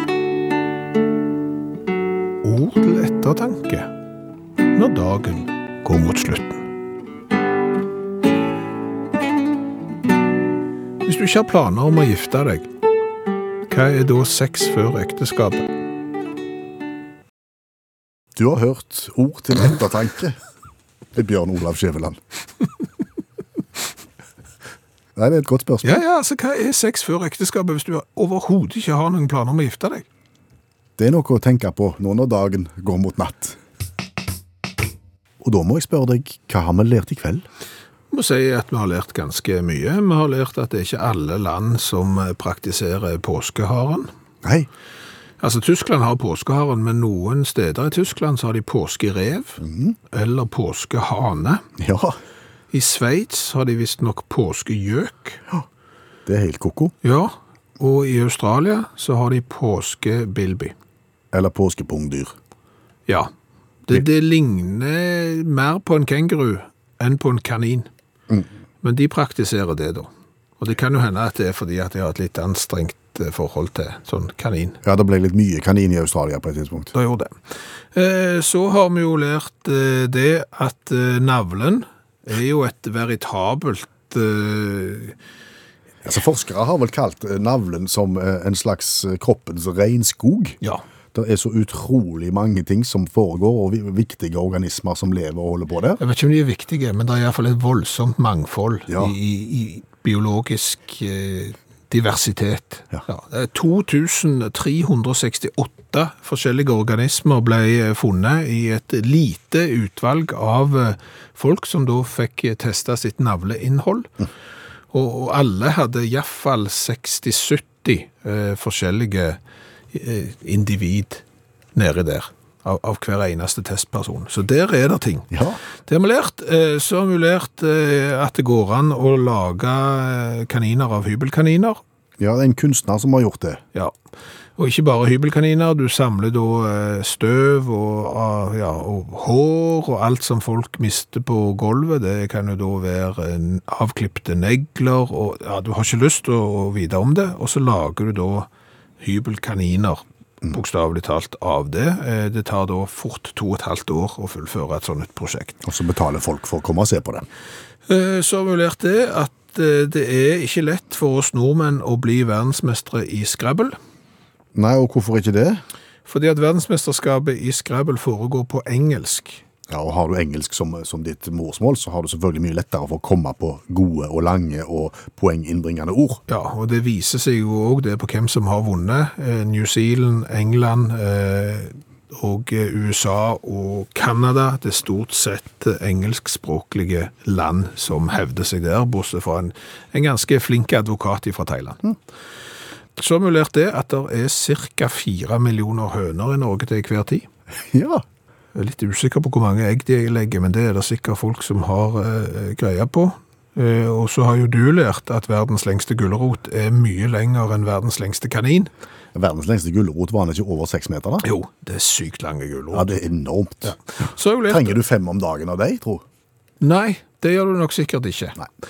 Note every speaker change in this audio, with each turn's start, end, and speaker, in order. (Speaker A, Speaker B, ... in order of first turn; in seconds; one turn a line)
Speaker A: 2.4-3.9
Speaker A: 4.7-6.7
Speaker A: 11.0-12.7
Speaker A: 13.7-15.7
Speaker B: 18.3-20.4
Speaker B: 21.1-22.2
Speaker B: 25.1-26.0
Speaker A: 25.8-30.0
Speaker B: 31.0-33.6
Speaker B: 35.4-37.4
Speaker A: 38.1-44.1
Speaker B: 44.4-44.7
Speaker A: 45.4-49.6
Speaker B: 49.6-50.0
Speaker A: 50.1-51.6
Speaker B: 51.8-52.2
Speaker A: 52.7-55.4
Speaker B: 56.2-56.9
Speaker A: 57.0-60.7
Speaker B: 61.3-62.3
Speaker A: 63.9-67.9
Speaker A: 68.8-70.1
Speaker A: 70.6-74.8
Speaker B: 74.8-76.9
Speaker A: 76.9-77.4
Speaker A: 77.9-85.2
Speaker B: 86.0-90.6
Speaker B: 91.1-96.0
Speaker A: 96.0-114.1
Speaker A: 114.9-119.4
Speaker A: 119.9-121.2
Speaker A: 121.7-125.3
Speaker B: 125.3-125.6
Speaker A: 125.8-131.8
Speaker B: 132.2-133.6
Speaker A: 134.6-148.5
Speaker A: 149.0-155.6
Speaker B: 155.6-157.2
Speaker A: 157.9-163.8
Speaker B: 164.5-165.6
Speaker A: 166.1-169.4
Speaker B: 169.7-176.2
Speaker A: 176.3-191.9
Speaker A: 192.9-197.3
Speaker B: 197.7-198.0
Speaker A: 198.5-208.7
Speaker B: 209.1-211.2
Speaker A: 211.2-213.0
Speaker B: 212.7-213.8
Speaker A: 213.6-214.8
Speaker B: 214.5-216.0
Speaker A: 216.6-218.4